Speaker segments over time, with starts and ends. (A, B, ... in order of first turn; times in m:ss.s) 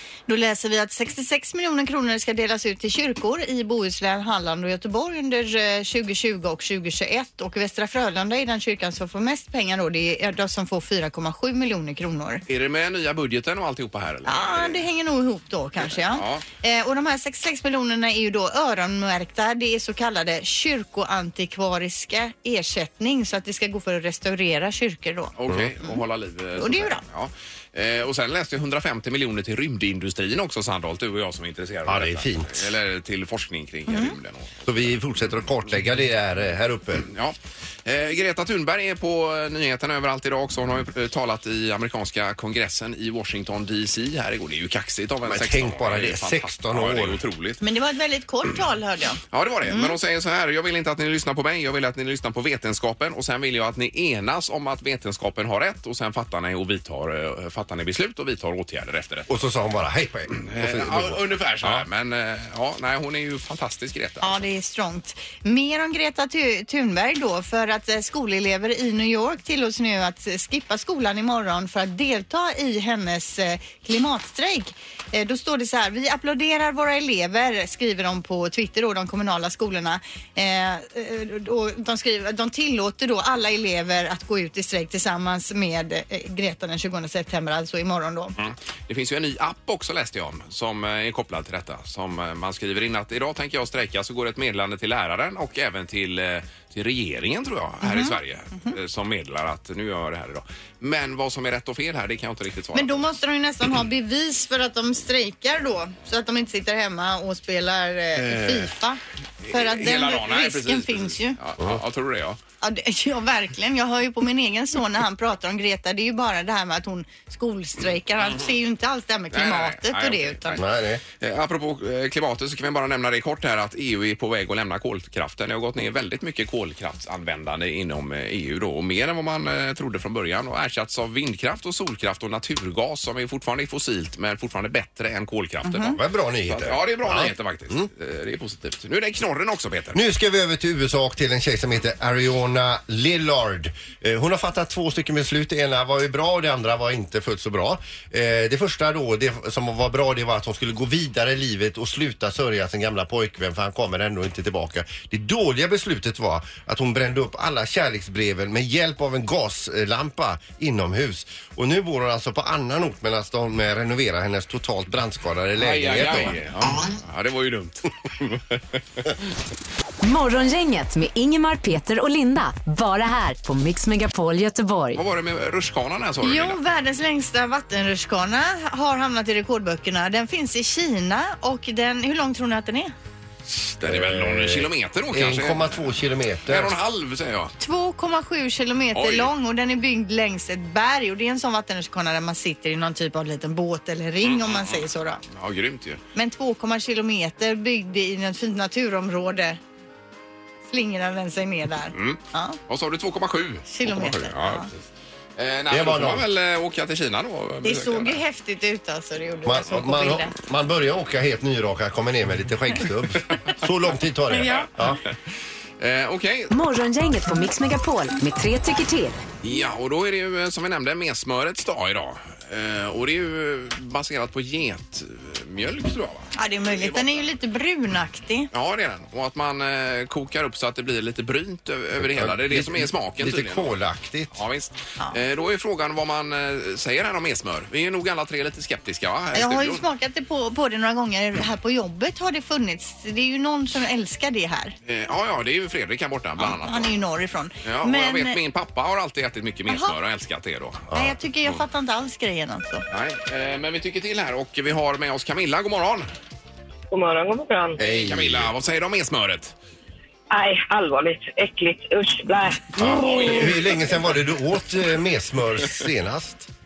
0:00.3-0:12.4 A
0:12.5-0:14.8 B
0:14.2-0:25.3 A
0:15.8-0:16.4 B
0:25.4-0:34.9 B
0:26.6-0:27.0 A
0:31.9-0:32.7 C
0:33.9-0:34.1 A
0:34.7-0:37.1 C
0:37.1-0:47.6 B
0:45.2-0:47.2 C
0:47.6-0:50.0 A
0:49.3-0:59.3 B
0:59.3-1:01.8 C
1:00.4-1:04.4 B
1:04.2-1:28.3 A
1:28.4-1:43.0 B
1:37.8-1:38.8 A
1:42.7-1:49.0 A
1:48.2-1:48.6 C
1:49.4-1:52.4 B
1:49.5-1:51.4 A
1:52.6-2:00.6 A
1:59.3-2:00.6 B
2:00.6-2:01.0 C
2:01.2-2:20.0 B
2:15.6-2:16.0 A
2:15.8-2:17.9 C
2:19.9-2:46.4 C
2:45.6-2:49.1 B
2:50.0-2:55.0 D
2:54.9-2:56.6 B
2:56.2-3:02.9 A
3:03.5-3:07.5 B
3:03.8-3:06.7 C
3:07.6-3:15.2 A
3:08.9-3:09.3 B
3:14.2-3:16.0 B
3:16.1-3:19.6 A
3:20.7-3:22.6 A
3:21.9-3:24.8 B
3:23.7-3:24.7 A
3:25.4-3:28.2 B
3:25.7-3:26.3 C
3:27.6-3:30.3 A
3:29.4-3:35.0 C
3:34.3-3:34.9 A
3:35.8-3:36.5 B
3:36.5-3:39.2 D
3:39.4-3:47.2 B
3:46.3-3:48.5 A
3:48.5-3:53.7 B
3:52.0-3:54.4 C
3:54.3-3:59.8 B
3:59.3-4:04.7 A
4:04.8-4:06.9 B
4:06.4-4:08.4 A
4:07.6-4:10.9 B
4:09.7-4:09.9 A
4:10.9-4:12.8 A
4:12.9-4:16.1 B
4:16.9-4:17.8 E
4:17.8-4:18.5 C
4:17.8-4:19.5 B
4:20.3-4:23.7 E
4:22.8-4:26.5 C
4:22.8-4:23.6 B